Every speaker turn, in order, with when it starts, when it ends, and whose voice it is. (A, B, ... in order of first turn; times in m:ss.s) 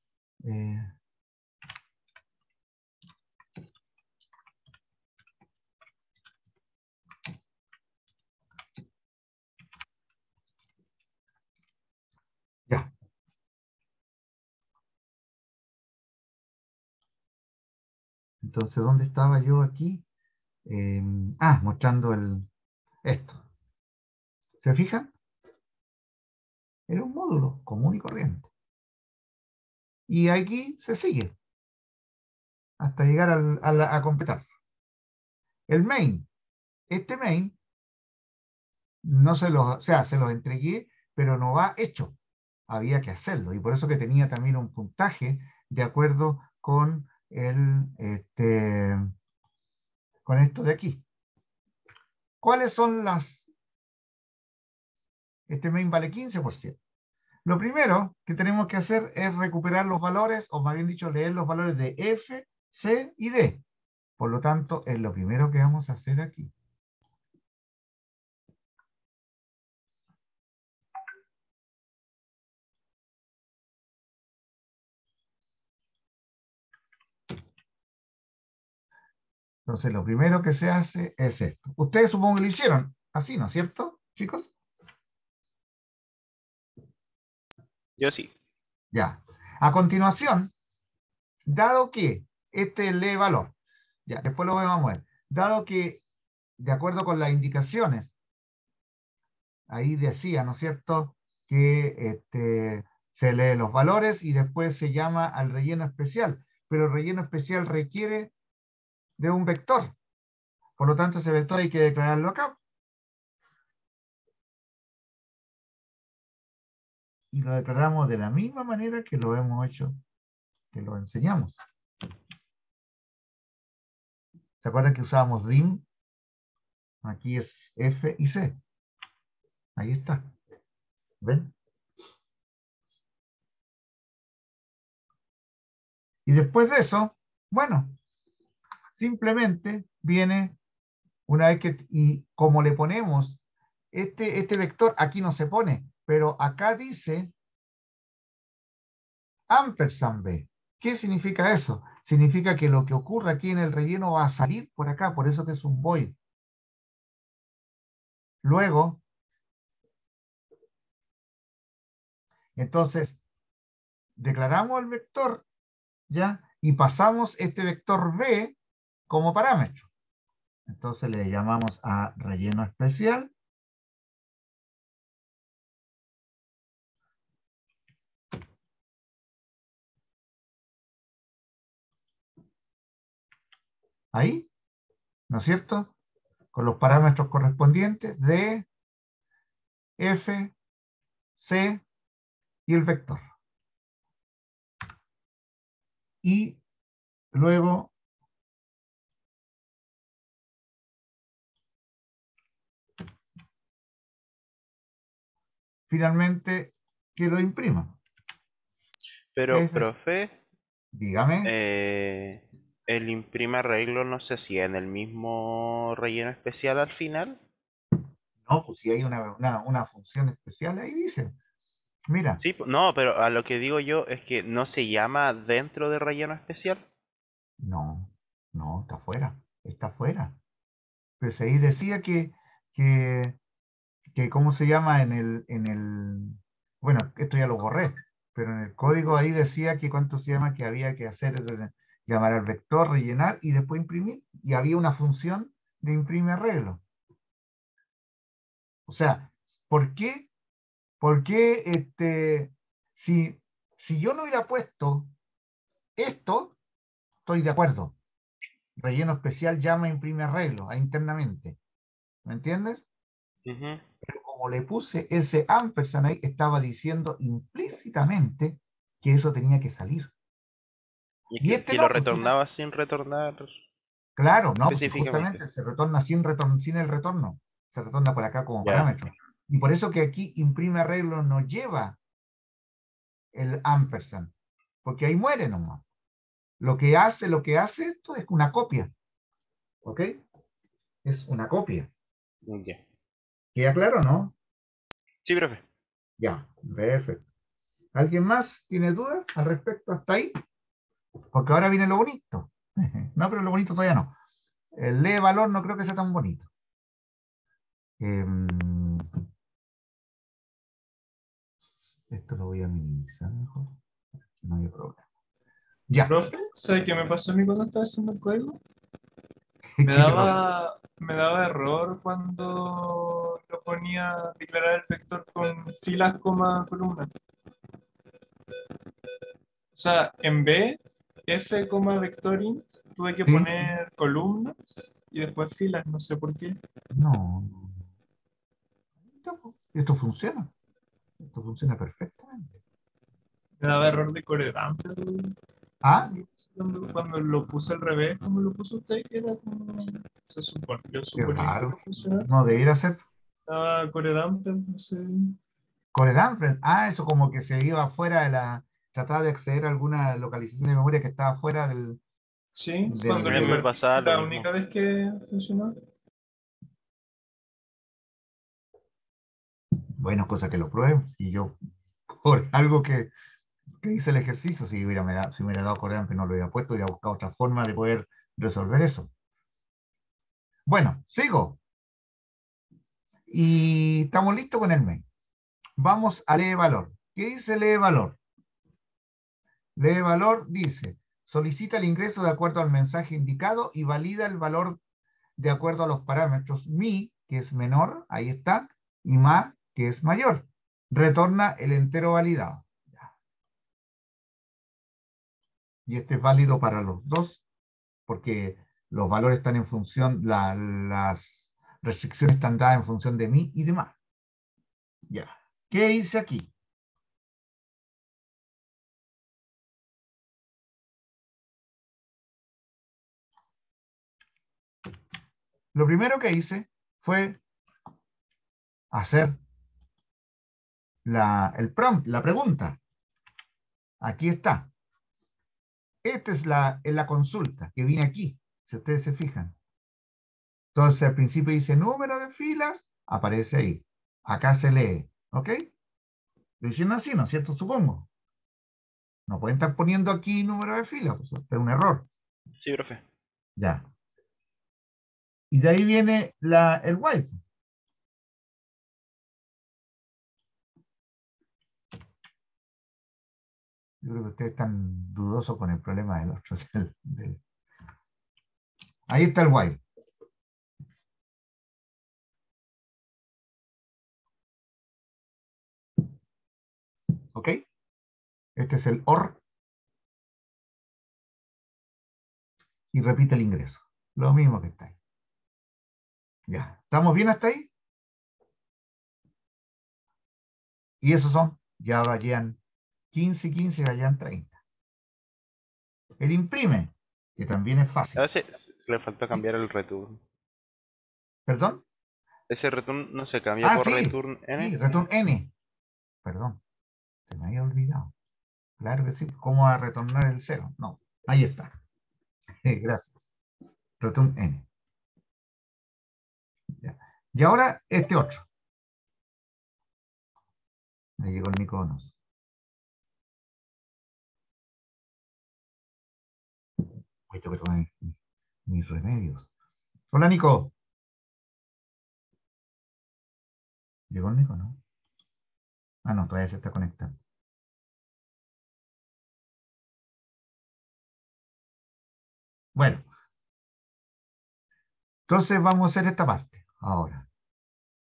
0:00.4-0:00.9 A
0:18.4-0:20.0 A
0:20.7-0:22.5 A
0:23.0-0:23.4 A
0:24.6-0:25.1 A
0:26.9-0:28.5 A
0:30.1-0:31.3 A
0:32.8-0:34.4 A
0:35.7-0:36.3 A
0:36.9-0:37.6 A
0:39.0-0:42.2 A
0:42.7-0:49.1 A
0:50.3-0:51.0 A
0:52.4-0:53.5 A
0:55.5-0:56.8 A
0:57.4-1:03.6 A
1:04.2-1:06.5 A
1:19.7-1:24.5 A
1:28.0-1:28.3 B
1:28.9-1:30.5 A
1:31.5-1:33.5 A
1:34.1-1:36.0 A
1:36.6-1:38.1 A
1:39.7-1:48.3 A
1:49.2-1:50.0 A
1:50.8-1:52.6 A
1:57.3-2:00.0 A
2:00.7-2:01.6 A
2:04.6-2:05.8 A
2:07.0-2:08.6 A
2:09.8-2:10.3 A
2:11.2-2:11.5 A
2:16.3-2:18.0 A
2:19.0-2:20.6 A
2:21.3-2:23.4 A
2:23.9-2:27.3 A
2:29.5-2:36.2 A
2:38.4-2:39.0 A
2:42.6-2:43.2 A
2:44.2-2:45.4 A
2:46.1-2:48.6 A
2:49.1-2:49.9 A
2:50.7-2:53.3 A
3:04.1-3:04.5 A
3:05.3-3:05.9 A
3:06.5-3:08.7 A
3:10.0-3:10.6 A
3:11.4-3:11.8 A
3:12.7-3:13.2 A
3:16.2-3:16.6 A
3:17.3-3:17.9 A
3:25.9-3:28.0 A
3:29.3-3:30.4 B
3:29.5-3:29.9 A
3:30.9-3:31.5 A
3:31.4-3:37.4 B
3:38.5-3:41.4 A
3:42.1-3:42.4 A
3:42.4-3:46.8 B
3:47.6-3:50.4 A
3:51.2-3:53.4 A
3:54.2-4:06.8 A
4:08.9-4:10.3 A
4:11.0-4:15.1 A
4:16.0-4:16.6 A
4:17.3-4:18.0 A
4:18.8-4:21.6 A
4:22.2-4:22.8 A
4:23.5-4:23.8 B
4:24.0-4:30.1 A
4:31.3-4:33.5 B
4:31.4-4:32.3 A
4:34.2-4:42.0 A
4:34.7-4:35.4 B
4:38.6-4:38.9 B
4:43.3-4:44.3 A
4:44.8-4:45.8 A
4:46.6-4:48.9 A
4:49.8-4:50.2 A
4:51.0-4:51.9 A
4:52.5-4:52.8 B
4:53.6-4:54.3 A
4:55.2-4:55.6 B
4:56.2-4:57.2 A
4:58.0-5:00.4 A
5:01.3-5:04.2 A
5:04.8-5:06.5 A
5:08.0-5:09.1 A
5:12.1-5:13.8 A
5:14.4-5:15.0 A
5:15.9-5:16.2 A
5:16.1-5:18.6 C
5:19.8-5:20.5 A
5:19.9-5:27.1 C
5:29.8-5:36.6 C
5:33.3-5:33.8 A
5:36.9-5:37.8 A
5:39.2-5:40.5 A
5:41.2-5:42.6 A
5:43.6-5:45.4 C
5:45.8-5:46.1 A
5:46.0-5:52.3 C
5:51.2-5:53.0 A
5:53.5-5:55.4 C
5:55.9-6:02.0 A
6:02.6-6:05.8 C
6:02.9-6:03.6 A
6:03.2-6:04.5 B
6:10.0-6:11.6 A
6:12.2-6:13.1 A
6:13.8-6:19.1 A
6:20.7-6:21.6 A
6:23.3-6:25.0 A
6:25.8-6:28.2 A
6:29.8-6:34.8 A
6:35.4-6:43.1 A
6:45.9-6:47.4 A
6:48.1-6:54.0 A
6:55.1-6:56.5 A
7:05.7-7:07.4 A
7:08.9-7:09.4 A
7:11.0-7:12.8 A
7:14.0-7:14.7 A
7:16.0-7:19.6 A
7:20.7-7:25.6 A
7:26.6-7:28.1 A
7:29.3-7:32.1 A
7:32.6-7:33.0 B
7:33.6-7:33.9 A
7:35.5-7:37.4 A
7:44.0-7:47.4 A
7:49.1-7:49.8 A
7:57.3-7:57.6 A
7:58.6-7:59.4 A
8:02.9-8:05.0 A
8:06.5-8:07.7 A
8:11.0-8:12.6 A
8:13.1-8:14.6 A
8:16.2-8:18.3 A
8:18.2-8:20.2 B
8:21.5-8:21.8 A
8:22.5-8:24.8 B
8:23.6-8:25.5 A
8:26.2-8:26.6 A
8:27.3-8:28.1 A
8:28.8-8:31.7 A
8:32.6-8:33.3 A
8:34.0-8:34.7 A
8:36.8-8:38.5 A
8:41.2-8:42.1 A
8:47.3-8:48.1 A
8:48.7-8:49.5 A
8:50.1-8:50.7 A
8:54.1-8:54.8 A
8:56.0-8:57.2 A
9:02.8-9:03.1 A
9:05.3-9:07.3 A